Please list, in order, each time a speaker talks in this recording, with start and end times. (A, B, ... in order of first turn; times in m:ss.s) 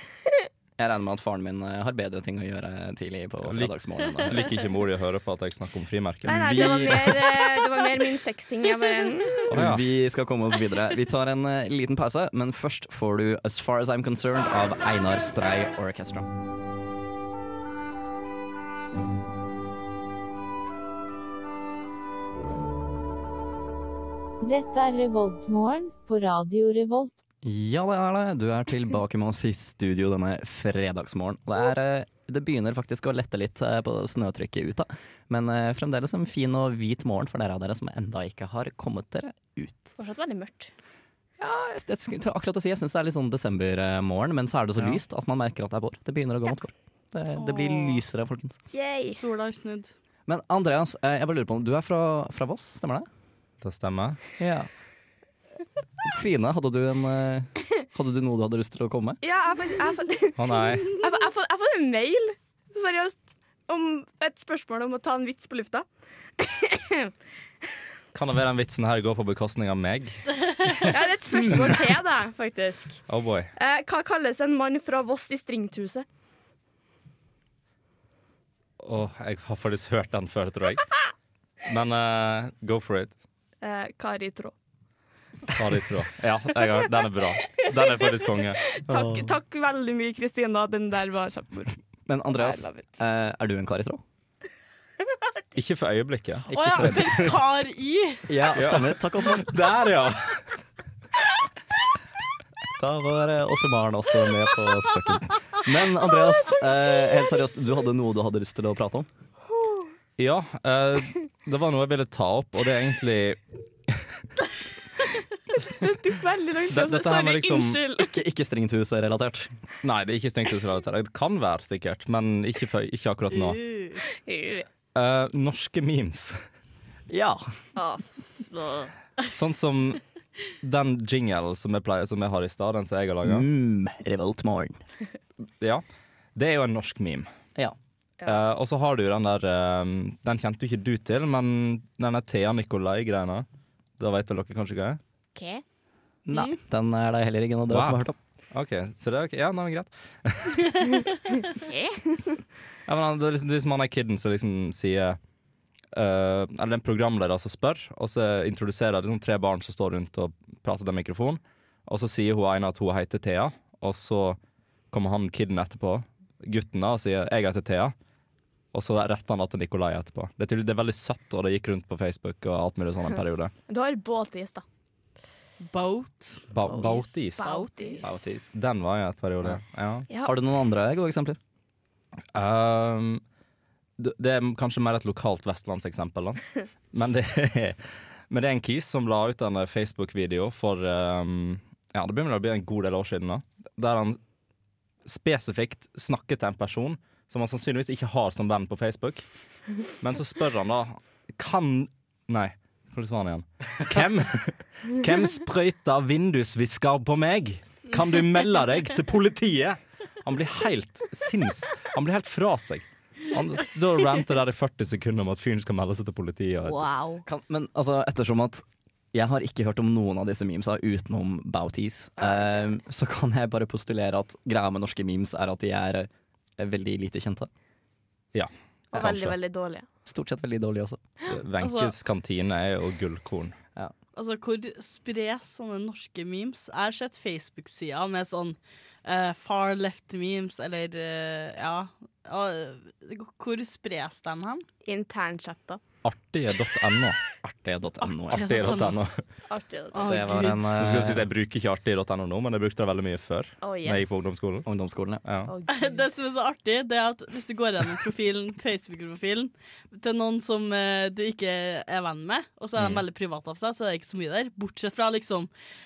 0:00.8-0:04.5 A
0:03.4-0:07.1 B
0:06.2-0:07.5 A
0:06.3-0:09.5 C
0:09.5-0:09.8 B
0:09.5-0:16.3 A
0:24.4-0:27.1 D
0:27.4-0:40.0 A
0:40.0-0:40.7 C
0:41.4-0:48.6 A
0:47.4-0:48.0 E
0:48.7-0:49.2 C
0:49.1-0:49.9 E
0:50.3-0:53.1 A
0:53.6-0:54.2 B
0:54.4-0:54.7 A
0:56.0-0:59.2 A
0:59.2-1:05.9 C
1:00.4-1:01.0 B
1:06.4-1:07.1 C
1:08.1-1:10.7 B
1:10.8-1:13.0 C
1:13.1-1:13.5 B
1:13.6-1:16.0 C
1:18.8-1:20.9 B
1:21.6-1:23.2 B
1:23.6-1:24.5 C
1:25.5-1:28.6 B
1:28.7-1:31.8 C
1:28.9-1:29.4 A
1:32.1-1:34.0 A
1:32.3-1:32.9 C
1:35.6-1:37.3 B
1:36.5-1:37.4 A
1:36.5-1:38.4 E
1:38.3-1:39.7 A
1:38.6-1:40.5 B
1:42.8-1:49.1 A
1:49.5-1:49.9 C
1:50.2-1:54.0 B
1:55.5-1:58.1 C
1:56.7-1:57.7 B
1:56.7-1:59.5 A
1:59.8-2:03.6 B
2:03.5-2:04.0 E
2:04.1-2:04.7 C
2:05.0-2:06.4 B
2:07.1-2:07.4 A
2:07.8-2:08.9 C
2:09.3-2:10.0 B
2:10.6-2:13.4 B
2:13.2-2:14.8 A
2:16.4-2:17.3 B
2:18.2-2:23.5 B
2:24.0-2:25.0 B
2:25.4-2:25.6 C
2:26.3-2:28.2 A
2:27.7-2:31.0 B
2:31.5-2:32.4 C
2:32.9-2:35.2 B
2:35.9-2:44.4 B
2:44.9-2:47.9 B
2:48.7-2:53.5 B
2:53.7-2:54.6 C
2:55.7-2:56.4 E
2:56.5-2:57.5 B
2:56.6-2:58.3 C
2:57.4-2:58.2 E
2:58.0-2:58.5 A
2:58.5-3:00.1 B
3:00.2-3:01.4 A
3:02.3-3:03.2 B
3:04.0-3:14.2 B
3:15.1-3:19.2 B
3:20.0-3:36.9 B
3:36.6-3:37.2 C
3:37.2-3:47.5 A
3:48.3-3:49.4 B
3:48.9-3:49.9 C
3:50.1-3:51.0 A
3:51.3-3:53.6 B
3:51.6-3:51.9 E
3:54.2-4:04.6 E
4:04.8-4:05.8 C
4:06.0-4:07.2 B
4:07.4-4:08.5 A
4:08.1-4:09.0 E
4:08.3-4:09.2 B
4:09.5-4:10.3 C
4:09.9-4:10.7 E
4:10.0-4:11.3 A
4:10.8-4:14.7 B
4:13.6-4:14.2 C
4:14.7-4:15.2 A
4:15.2-4:15.5 B
4:15.5-4:16.0 C
4:15.7-4:25.5 E
4:22.8-4:23.0 B